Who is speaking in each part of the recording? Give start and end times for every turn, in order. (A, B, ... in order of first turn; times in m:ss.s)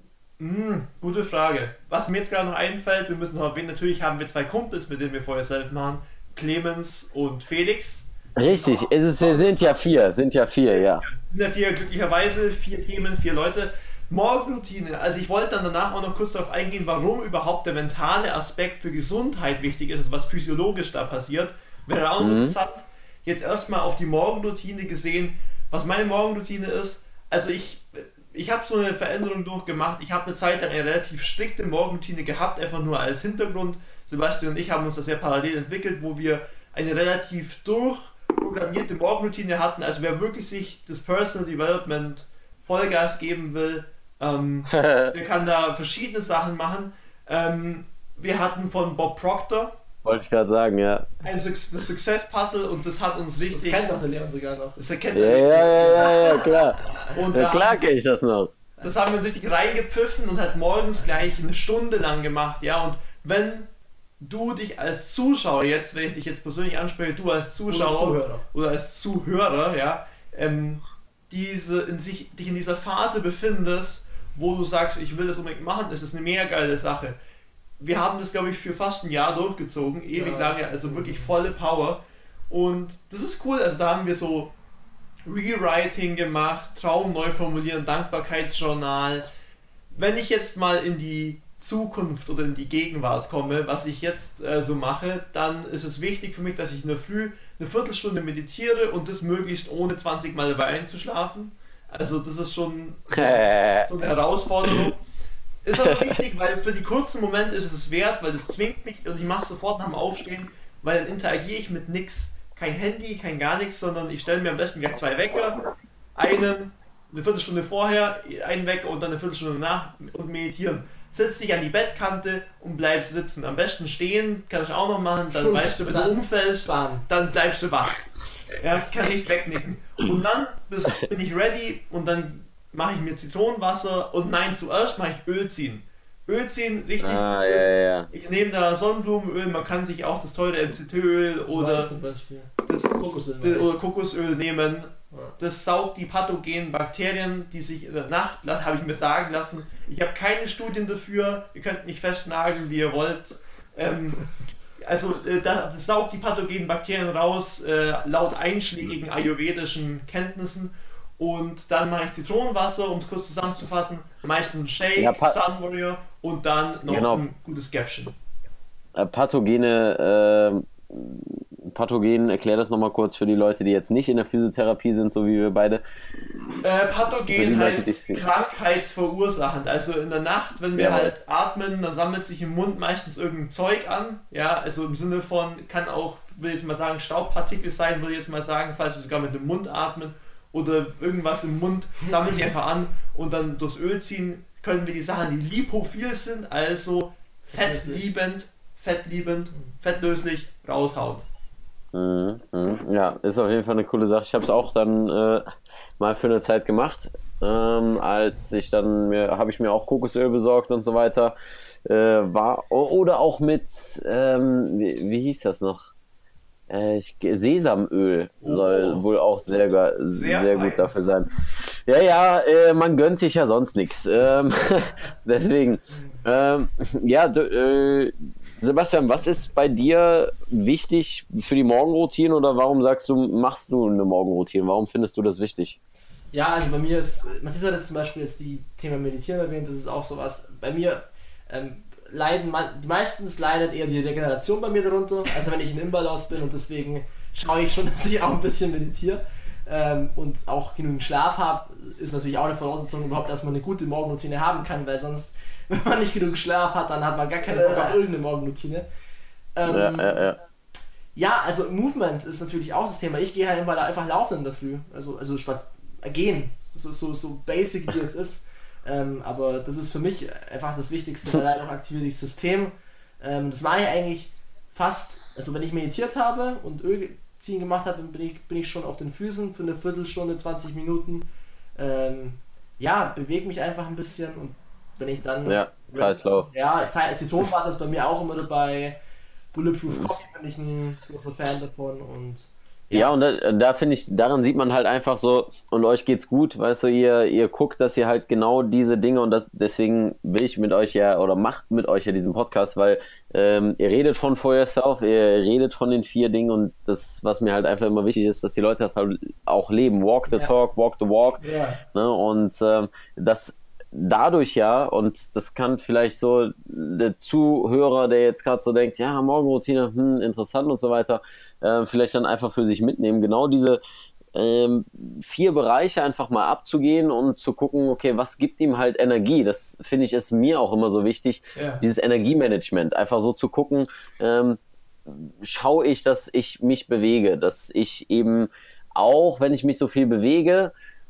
0:00.4-0:09.8 A
0:08.4-0:11.0 B
0:10.7-0:49.8 A
0:22.2-0:22.6 B
0:44.7-0:45.1 B
0:50.0-0:51.1 B
0:51.2-0:53.9 A
0:53.5-0:54.8 C
0:54.8-0:56.3 A
0:55.1-0:56.8 B
0:55.8-0:56.5 C
0:57.1-0:57.8 A
0:57.3-0:58.5 B
0:58.8-1:03.7 A
1:04.2-1:17.2 A
1:07.7-1:08.4 C
1:17.8-1:24.5 A
1:20.1-1:21.3 C
1:25.2-1:29.3 A
1:29.9-1:45.0 A
1:43.1-1:43.9 B
1:45.6-1:55.6 A
1:45.7-1:46.2 B
1:56.2-2:08.0 A
2:05.3-2:07.1 C
2:08.6-2:21.9 A
2:17.0-2:18.1 B
2:21.5-2:23.7 C
2:22.7-2:34.3 A
2:34.8-2:48.2 A
2:45.0-2:45.4 B
2:46.9-2:47.2 B
2:49.0-2:55.8 B
2:56.6-3:21.2 A
2:57.3-2:58.2 B
3:00.8-3:01.1 B
3:17.6-3:18.0 C
3:21.9-3:25.4 B
3:26.0-3:35.9 B
3:36.7-3:55.8 B
3:38.4-3:39.1 A
3:40.1-3:40.9 A
3:56.3-4:18.9 C
4:17.5-4:18.0 A
4:19.6-4:20.3 C
4:19.7-4:20.4 B
4:21.2-4:49.0 C
4:45.4-4:46.5 B
4:49.5-4:53.1 C
4:52.9-5:23.8 B
5:11.4-5:11.8 A
5:24.3-5:40.7 B
5:31.6-5:31.8 A